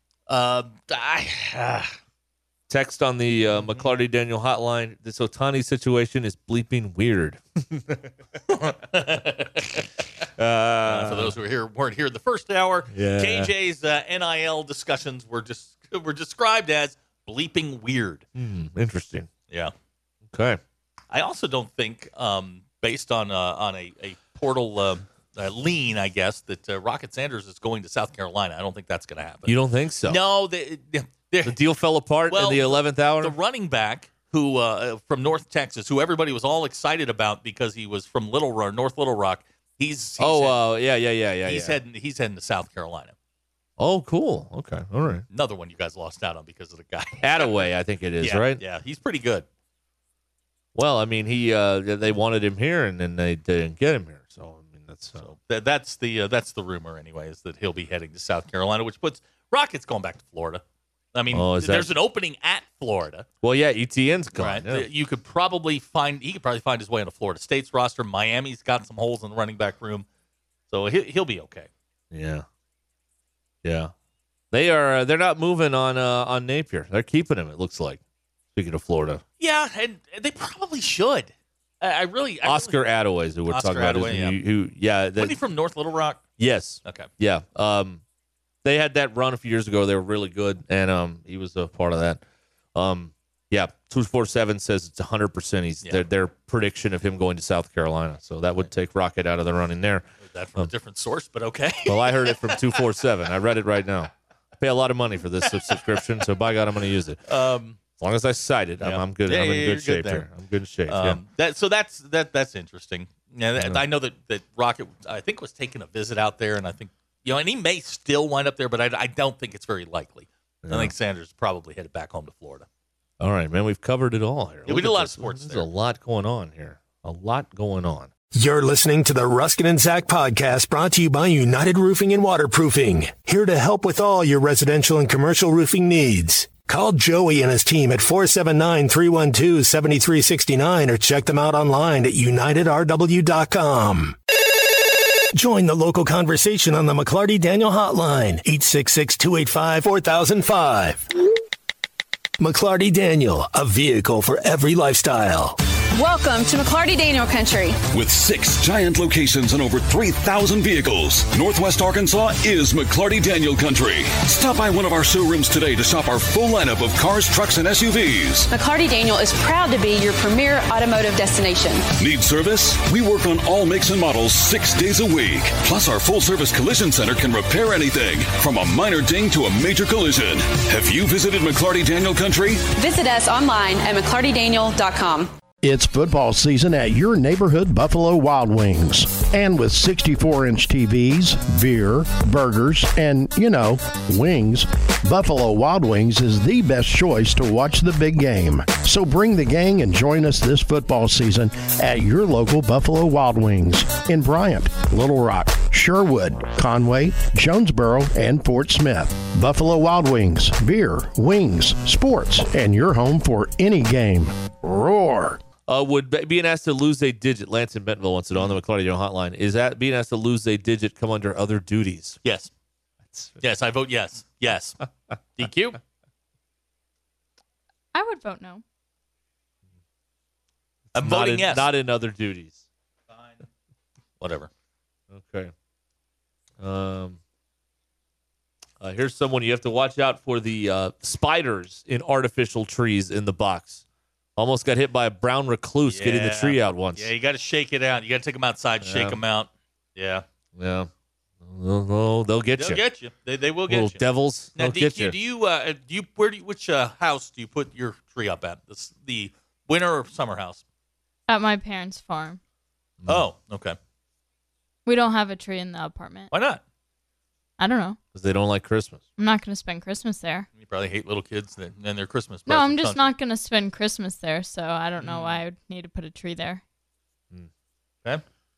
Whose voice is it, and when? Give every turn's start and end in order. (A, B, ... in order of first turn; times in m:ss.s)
0:00.3-0:01.9 A
0:02.7-0:08.1 B
0:03.5-0:03.9 A
0:08.5-0:09.9 A
0:10.4-0:11.4 B
0:10.8-0:18.2 A
0:12.9-0:13.5 B
0:18.4-0:19.3 B
0:20.3-0:20.6 B
0:21.1-0:29.5 A
0:29.5-0:30.2 B
0:30.1-0:31.6 A
0:31.4-0:33.3 B
0:32.3-0:40.6 A
0:40.2-0:41.8 B
0:41.4-0:43.1 A
0:43.8-0:45.2 B
0:45.3-0:47.7 A
0:47.2-0:48.6 B
0:48.2-0:49.4 A
0:50.7-0:55.3 B
0:55.2-1:00.6 A
1:01.1-1:03.3 A
1:01.3-1:01.9 B
1:03.4-1:04.9 B
1:04.4-1:10.0 A
1:10.7-1:11.7 A
1:12.1-1:12.4 B
1:13.6-1:13.9 B
1:14.5-1:18.0 B
1:18.5-1:19.2 B
1:19.4-1:22.8 A
1:22.4-1:25.4 B
1:23.5-1:24.4 A
1:25.2-1:26.2 A
1:26.4-1:28.0 B
1:26.8-1:27.1 A
1:28.6-1:32.2 B
1:32.7-1:40.0 B
1:40.2-1:42.8 A
1:41.8-1:47.2 B
1:45.4-1:45.8 A
1:47.3-1:47.8 A
1:48.0-1:51.2 B
1:48.8-1:50.3 A
1:50.9-2:02.6 A
2:00.6-2:00.9 B
2:03.2-2:08.1 B
2:04.7-2:05.7 A
2:08.3-2:24.2 C
2:25.3-2:31.0 C
2:32.4-2:35.6 C
2:35.9-2:37.8 D
2:37.9-2:48.5 E
2:48.5-2:51.8 D
2:52.0-3:02.7 E
3:02.8-3:05.3 D
3:05.6-3:35.4 F
3:35.7-3:42.2 B
3:42.2-3:42.5 A
3:43.1-3:43.4 B
3:43.4-3:44.8 A
3:45.4-3:45.8 A
3:47.9-3:48.6 G
3:50.9-3:51.7 A
3:50.9-3:52.6 B
3:53.1-3:53.4 A
3:54.2-3:54.5 A
3:55.1-3:55.5 B
3:56.6-3:57.2 B
3:58.8-4:03.8 B
4:04.4-4:07.1 B
4:05.9-4:10.2 A
4:08.8-4:09.2 B
4:10.5-4:10.9 B
4:11.4-4:12.8 B
4:12.6-4:14.0 A
4:13.7-4:15.1 B
4:14.5-4:20.6 A
4:21.3-4:22.4 G
4:23.1-4:23.8 A
4:24.8-4:26.3 G
4:26.3-4:26.6 A
4:27.6-4:28.0 G
4:28.1-4:29.0 B
4:29.2-4:30.5 G
4:30.6-4:33.1 A
4:32.5-4:36.6 G
4:35.0-4:35.4 A